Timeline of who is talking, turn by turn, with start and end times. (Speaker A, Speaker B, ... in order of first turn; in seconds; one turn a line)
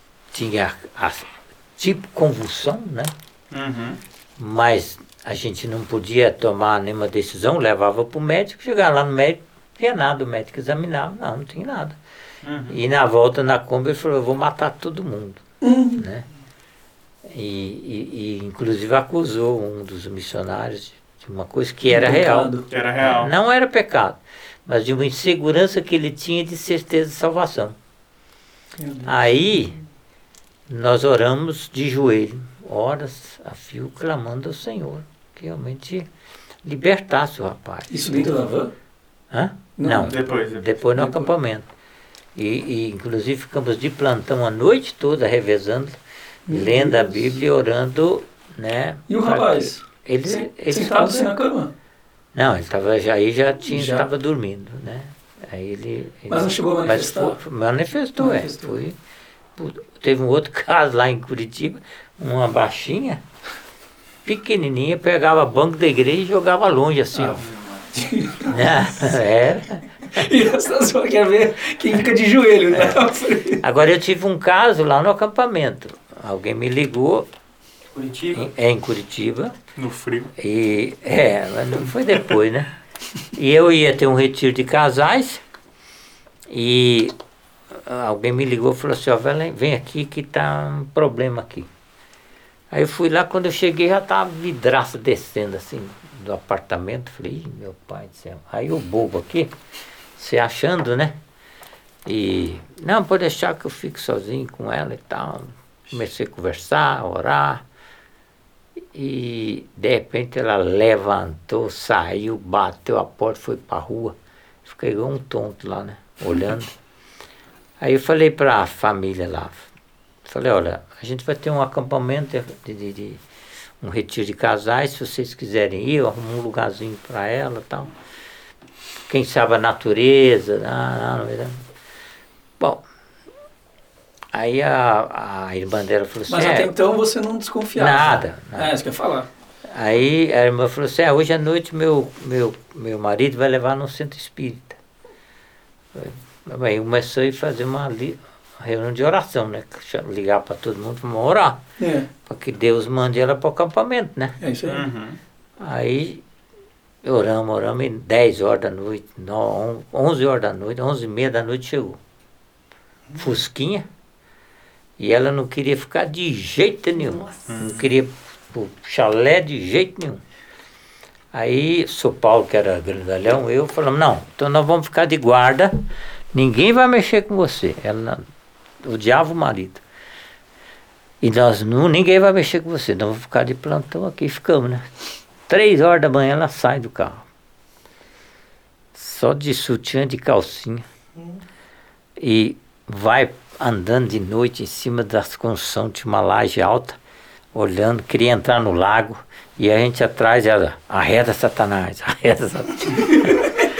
Speaker A: 0.3-3.1
Speaker B: 3.5-4.0
Speaker A: 4.4-12.0
Speaker B: 12.4-12.8
Speaker A: 12.7-15.4
Speaker C: 15.6-16.0
Speaker A: 16.0-16.2
Speaker A: 17.2-27.7
Speaker C: 21.9-22.7
Speaker B: 22.7-23.3
Speaker C: 28.8-29.1
Speaker A: 29.0-29.8
Speaker A: 30.7-36.1
Speaker A: 36.6-38.3
Speaker C: 37.9-38.7
Speaker A: 39.3-41.7
Speaker C: 39.8-40.4
Speaker B: 39.9-40.7
Speaker C: 40.9-41.3
Speaker A: 42.4-51.3
Speaker C: 46.5-47.2
Speaker C: 49.1-51.7
Speaker A: 52.3-59.0
Speaker C: 53.7-54.1
Speaker C: 56.3-57.4
Speaker C: 58.2-58.7
Speaker A: 59.5-63.2
Speaker A: 64.2-67.4
Speaker B: 67.2-67.9
Speaker C: 67.9-68.8
Speaker A: 68.5-70.3
Speaker C: 70.1-73.6
Speaker A: 72.7-73.0
Speaker A: 73.5-77.3
Speaker A: 78.3-79.5
Speaker B: 79.8-80.3
Speaker A: 80.4-82.7
Speaker A: 83.3-85.4
Speaker A: 86.5-87.1
Speaker A: 87.7-91.7
Speaker A: 92.7-99.5
Speaker A: 100.2-101.2
Speaker A: 102.0-107.6
Speaker A: 108.9-116.7
Speaker A: 117.8-119.7
Speaker A: 120.2-123.2
Speaker A: 123.8-127.9
Speaker A: 129.1-131.6
Speaker A: 134.3-136.7
Speaker C: 136.3-139.3
Speaker A: 137.8-138.7
Speaker A: 139.7-144.8
Speaker A: 145.9-151.6
Speaker C: 151.8-152.1
Speaker A: 152.2-154.3
Speaker C: 154.4-154.8
Speaker B: 154.7-155.2
Speaker A: 155.6-156.2
Speaker A: 157.0-162.0
Speaker A: 163.1-163.9
Speaker A: 165.0-170.2
Speaker B: 167.5-167.8
Speaker A: 171.3-178.2
Speaker A: 178.8-179.8
Speaker A: 181.2-184.9
Speaker A: 185.5-187.2
Speaker A: 188.9-190.8
Speaker A: 192.2-197.0
Speaker A: 197.5-203.4
Speaker C: 203.0-203.7